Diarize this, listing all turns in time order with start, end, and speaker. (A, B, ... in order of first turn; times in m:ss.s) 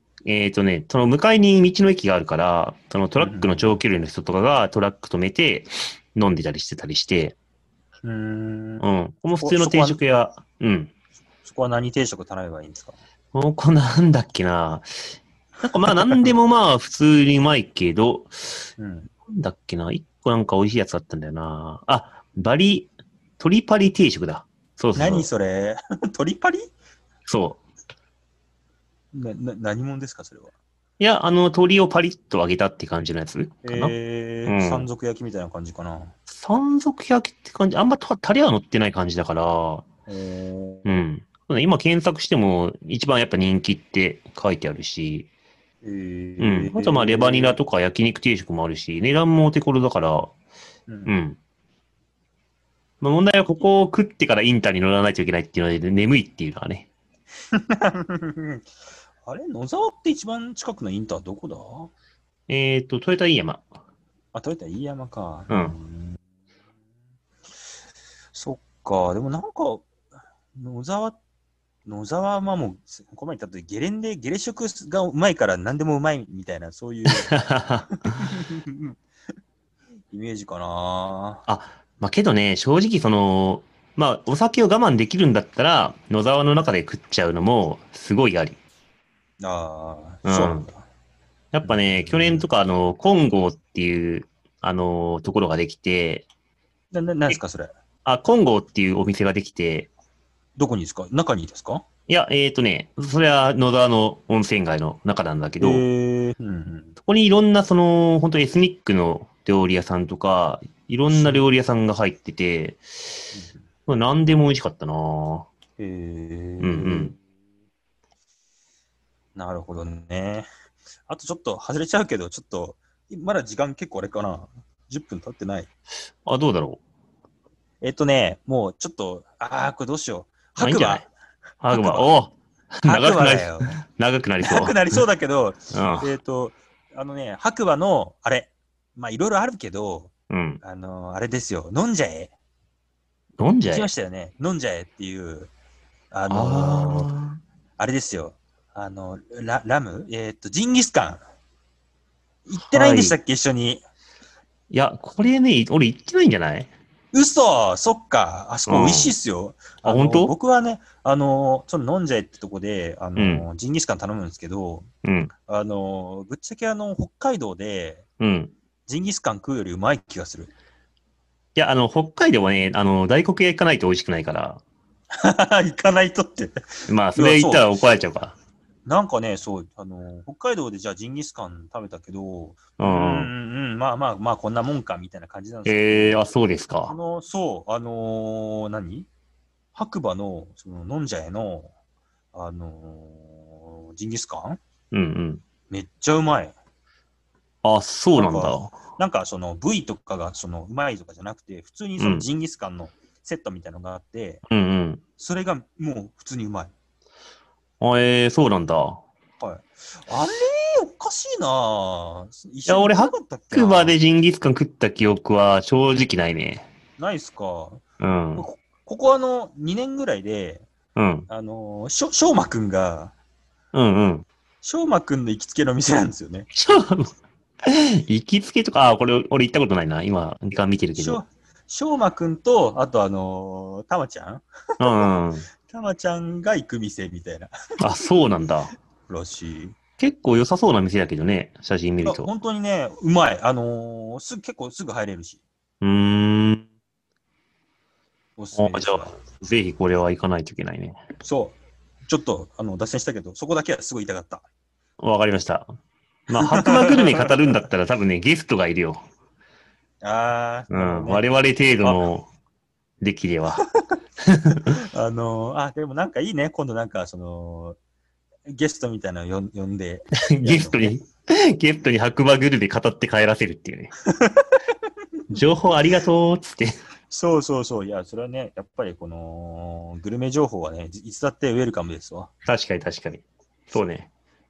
0:00.2-0:07.3 A
0:03.2-0:03.7 B
0:08.0-0:08.8 B
0:08.8-0:10.9 A
0:09.4-0:10.0 B
0:11.4-0:13.0 B
0:13.3-0:14.9 A
0:15.6-0:18.7 A
0:15.9-0:16.3 B
0:18.8-0:19.1 B
0:19.3-0:25.3 A
0:25.0-0:26.7 B
0:27.3-0:27.6 A
0:29.1-0:30.5 B
0:31.0-0:33.9 A
0:33.6-0:36.1 B
0:34.5-0:34.9 A
0:36.3-0:39.8 A
0:40.1-0:41.0 B
0:40.8-0:45.3 A
0:45.8-0:47.6 B
0:46.4-0:50.3 A
0:50.9-0:51.2 B
0:51.0-0:51.4 A
0:53.0-0:56.9 A
0:57.5-0:58.7 B
0:59.2-1:01.9 B
1:02.5-1:03.6 A
1:04.3-1:06.2 B
1:05.5-1:05.8 A
1:08.3-1:09.9 B
1:10.5-1:11.2 B
1:11.8-1:19.0 B
1:17.3-1:18.3 A
1:20.1-1:21.4 B
1:21.5-1:28.6 A
1:29.4-1:30.8 B
1:30.2-1:30.7 A
1:31.5-1:36.2 A
1:31.6-1:32.5 B
1:36.9-1:37.7 B
1:38.0-1:39.9 A
1:40.6-1:41.8 B
1:42.1-1:45.8 A
1:45.6-1:46.9 B
1:47.0-1:52.8 A
1:51.1-1:51.5 B
1:53.3-1:53.6 B
1:53.9-1:55.5 A
1:55.8-1:57.2 B
1:56.6-1:57.1 A
1:59.3-2:00.5 B
2:01.1-2:05.7 B
2:06.2-2:06.8 A
2:07.8-2:11.1 B
2:10.6-2:11.1 A
2:11.6-2:14.8 A
2:11.7-2:12.1 B
2:12.8-2:13.8 B
2:14.4-2:22.3 B
2:15.7-2:16.1 A
2:20.3-2:20.6 A
2:23.4-2:23.9 A
2:23.7-2:25.5 B
2:26.1-2:27.1 B
2:26.3-2:27.4 A
2:27.8-2:31.2 B
2:32.5-2:33.8 B
2:32.6-2:33.2 A
2:34.7-2:36.7 A
2:37.1-2:44.9 B
2:38.7-2:39.1 A
2:39.8-2:40.3 A
2:43.2-2:43.4 A
2:45.0-2:45.3 A
2:45.4-2:48.0 B
2:48.2-2:48.5 A
2:48.9-2:50.5 B
2:51.6-2:54.6 A
2:55.1-2:56.6 B
2:56.9-2:58.4 A
2:57.1-2:57.7 B
2:58.8-3:06.2 B
3:02.8-3:03.3 A
3:05.6-3:06.9 A
3:06.8-3:09.1 B
3:09.7-3:11.7 B
3:12.3-3:14.6 B
3:14.9-3:15.4 A
3:15.7-3:16.5 B
3:17.6-3:18.8 A
3:18.1-3:24.4 B
3:22.0-3:22.3 A
3:24.5-3:25.0 A
3:25.2-3:26.7 B
3:27.8-3:29.0 A
3:29.4-3:34.0 B
3:32.7-3:36.6 A
3:37.0-3:37.8 B
3:38.0-3:38.4 A
3:38.3-3:40.6 B
3:41.0-3:41.3 A
3:41.3-3:43.1 B
3:43.7-3:44.2 A
3:44.6-3:46.5 B
3:46.5-3:47.1 A
3:47.6-3:51.2 A
3:51.0-3:55.1 B
3:54.8-3:55.5 A
3:55.6-3:57.5 B
3:57.8-3:58.7 A
3:59.1-3:59.8 B
4:00.0-4:02.3 A
4:02.0-4:05.4 B
4:05.8-4:06.6 A
4:08.4-4:09.1 B
4:08.6-4:11.0 A
4:11.2-4:14.4 B
4:15.0-4:15.7 A
4:16.3-4:19.0 A
4:16.4-4:17.4 B
4:20.0-4:21.2 B
4:20.7-4:22.3 A
4:23.0-4:23.6 A
4:24.3-4:24.6 A
4:24.6-4:27.8 B
4:28.5-4:30.9 B
4:30.3-4:33.9 A
4:34.1-4:34.5 B
4:35.3-4:36.8 A
4:37.1-4:42.3 B
4:42.4-4:44.1 A